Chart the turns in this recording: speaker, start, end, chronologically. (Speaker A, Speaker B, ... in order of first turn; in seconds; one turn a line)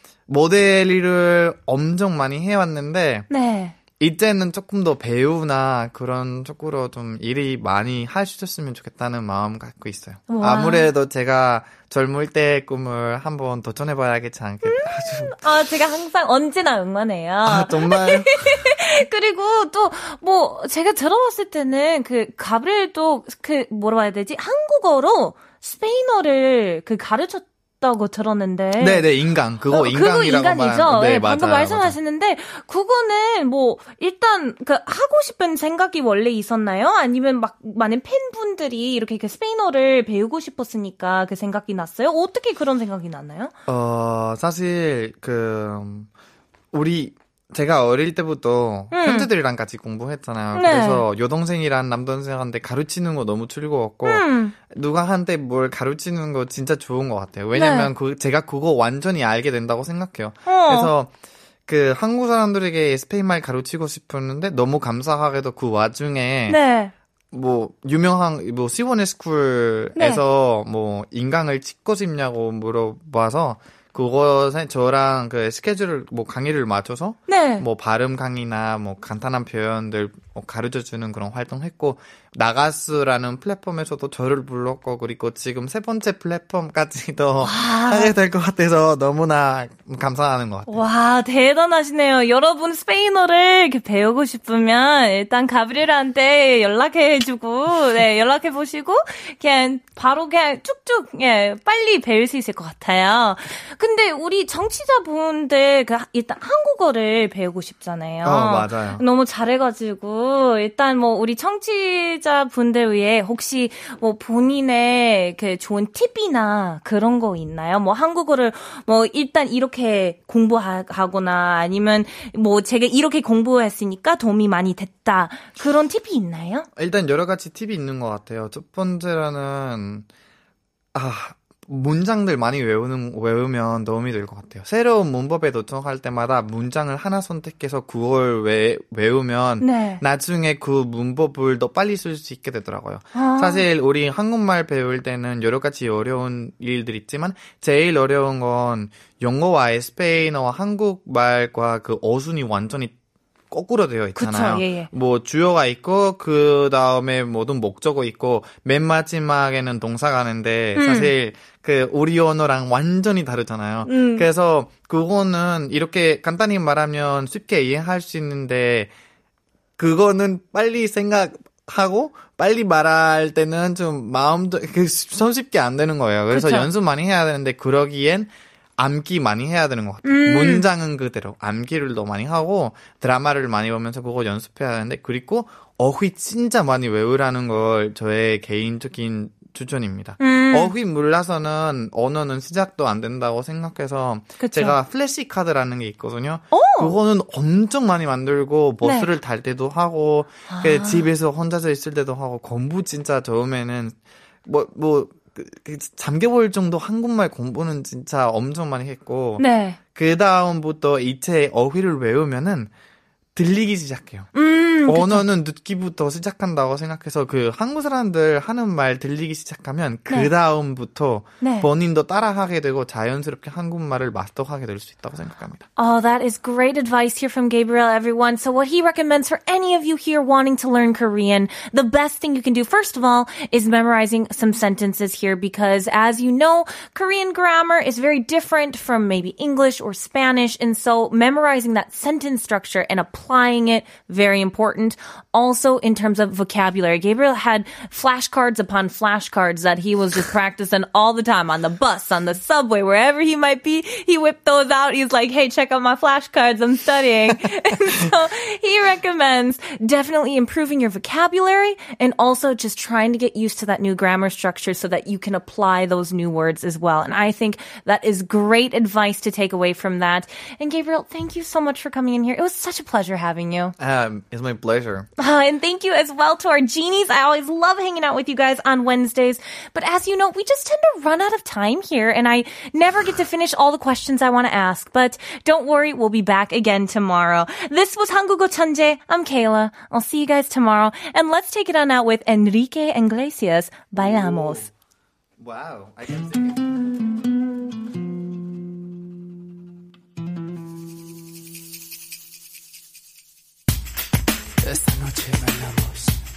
Speaker A: 0.3-3.3
Speaker B: 3.3-3.8
Speaker A: 4.0-15.7
Speaker B: 10.3-10.9
Speaker B: 14.6-29.1
Speaker A: 17.4-18.7
Speaker A: 28.8-32.0
Speaker B: 29.7-43.5
Speaker A: 43.7-46.1
Speaker A: 46.7-61.1
Speaker B: 48.9-49.3
Speaker B: 50.5-51.0
Speaker B: 54.0-54.5
Speaker B: 57.5-57.9
Speaker B: 60.5-60.9
Speaker A: 61.7-66.6
Speaker B: 66.5-66.9
Speaker A: 67.3-90.8
Speaker B: 70.0-70.2
Speaker B: 77.3-77.7
Speaker B: 87.4-88.2
Speaker B: 90.7-126.7
Speaker A: 108.2-109.0
Speaker A: 126.8-130.1
Speaker A: 130.9-152.9
Speaker B: 139.6-140.0
Speaker B: 143.1-143.7
Speaker A: 153.5-168.9
Speaker B: 154.1-154.9
Speaker B: 160.7-161.1
Speaker B: 163.8-164.3
Speaker A: 169.8-212.7
Speaker B: 176.3-176.7
Speaker B: 180.0-180.7
Speaker B: 190.2-190.7
Speaker B: 194.4-194.8
Speaker B: 196.5-197.0
Speaker B: 198.8-199.1
Speaker B: 200.5-201.1
Speaker B: 209.4-209.8
Speaker A: 213.3-214.3
Speaker B: 214.3-215.2
Speaker A: 214.9-225.7
Speaker B: 221.4-221.7
Speaker B: 225.8-273.7
Speaker A: 273.8-275.1
Speaker B: 275.2-294.7
Speaker A: 295.4-296.8
Speaker A: 304.7-305.5